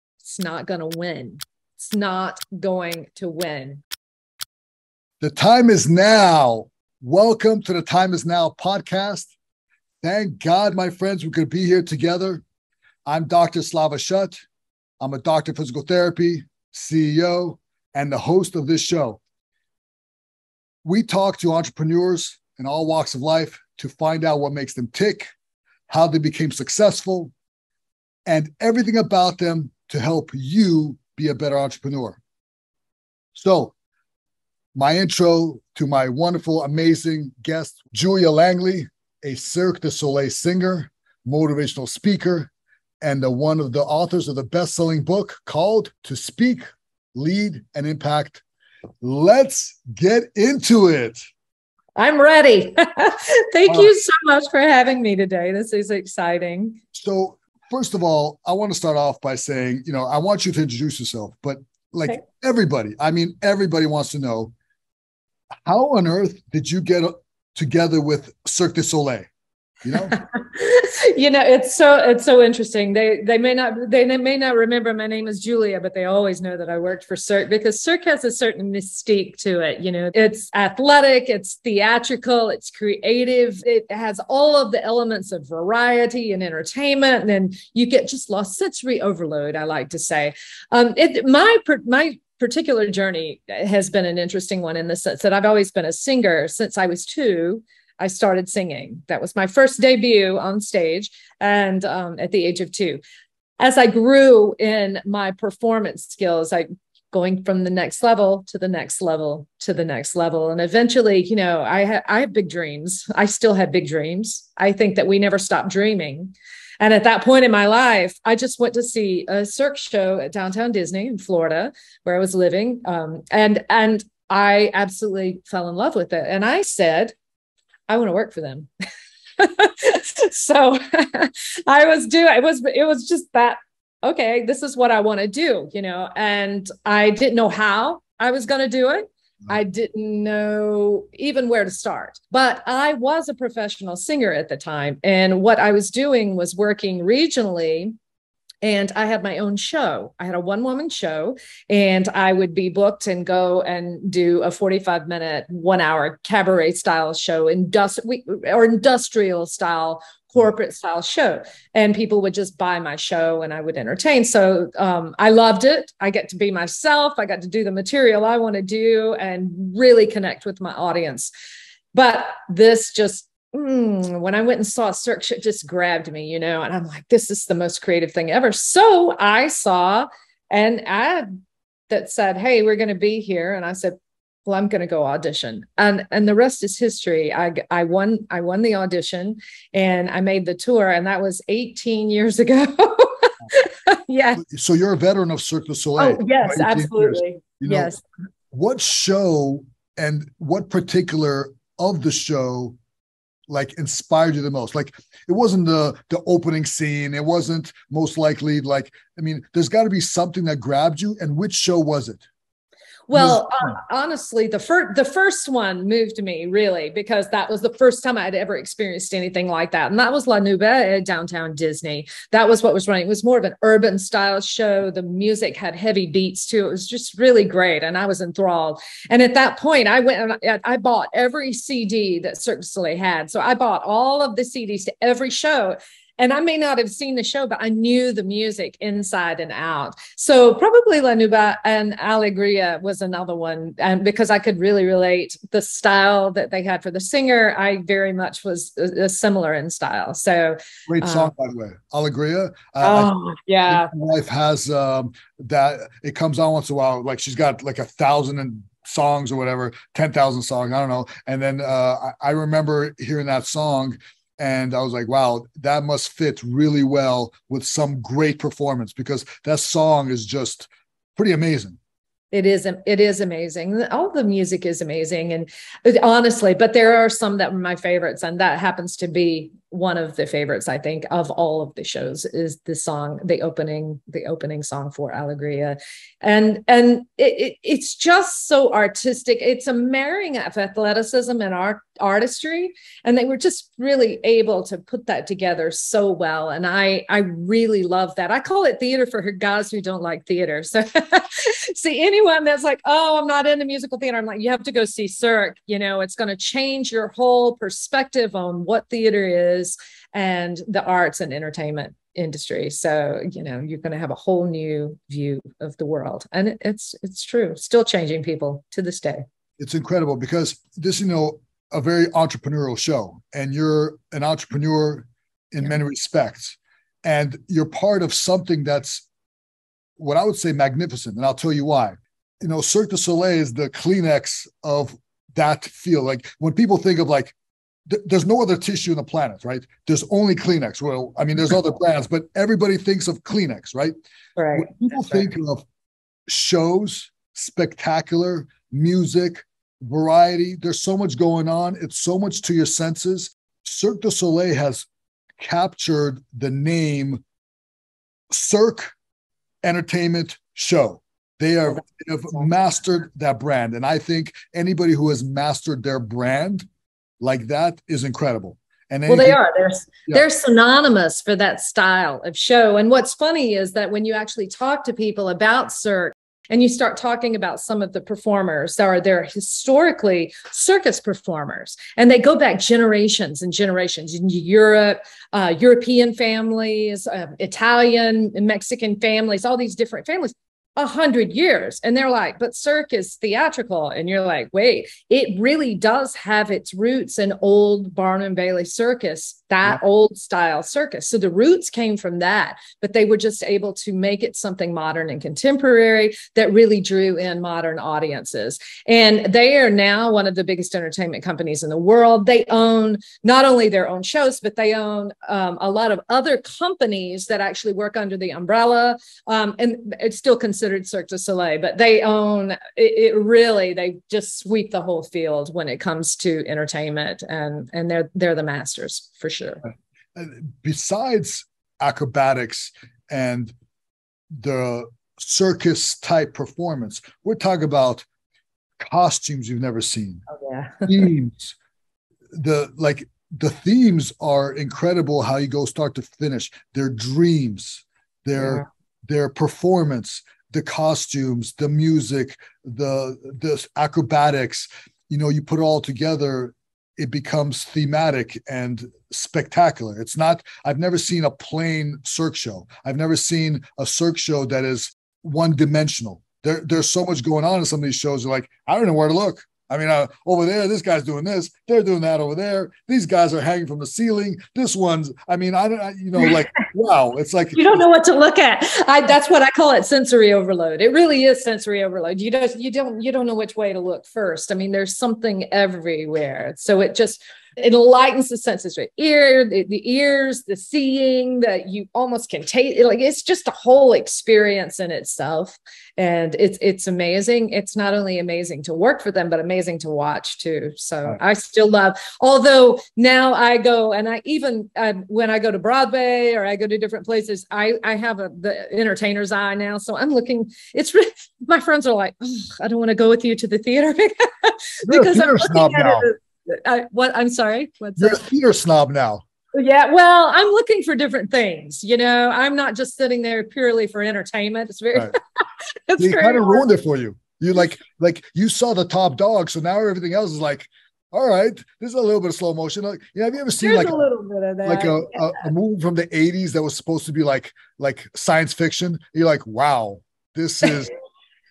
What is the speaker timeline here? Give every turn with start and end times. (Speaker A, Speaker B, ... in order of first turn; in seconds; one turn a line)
Speaker A: 0.2-3.8
Speaker B: 5.2-9.3
Speaker B: 10.0-12.4
Speaker B: 13.1-14.3
Speaker B: 15.0-19.2
Speaker B: 20.8-25.3
Speaker B: 25.9-27.3
Speaker B: 28.2-32.2
Speaker B: 33.3-33.7
Speaker B: 34.7-46.6
Speaker B: 47.1-48.4
Speaker B: 49.0-51.2
Speaker A: 52.0-56.8
Speaker B: 56.9-64.5
Speaker B: 65.6-69.3
Speaker B: 69.8-70.2
Speaker A: 69.9-103.0
Speaker A: 103.6-127.1
Speaker A: 127.9-128.7
Speaker A: 129.4-147.9
Speaker A: 148.6-171.3
Speaker A: 171.9-181.3
Speaker A: 181.9-194.4
Speaker B: 194.4-197.9
Speaker A: 196.0-198.0
Speaker B: 198.5-202.8
Speaker B: 203.5-212.2
Speaker A: 213.1-251.3
Speaker B: 213.1-213.7
Speaker B: 250.9-253.1
Speaker A: 252.8-253.9
Speaker B: 253.7-271.8
Speaker A: 272.3-319.2
Speaker B: 319.6-329.0
Speaker B: 330.0-337.3
Speaker B: 337.9-343.9
Speaker A: 344.4-345.3
Speaker B: 344.5-345.6
Speaker B: 346.3-354.9
Speaker B: 355.4-357.2
Speaker B: 358.3-358.9
Speaker B: 359.6-366.6
Speaker B: 367.2-369.4
Speaker A: 369.1-429.6
Speaker B: 430.1-433.5
Speaker B: 434.4-438.1
Speaker B: 438.8-440.2
Speaker A: 440.3-441.1
Speaker B: 440.9-441.5
Speaker B: 442.3-477.8
Speaker A: 448.4-448.7
Speaker A: 477.5-518.2
Speaker B: 514.8-516.1
Speaker B: 518.0-519.2
Speaker A: 519.5-526.7
Speaker B: 526.0-534.0
Speaker A: 533.6-535.5
Speaker B: 534.6-540.9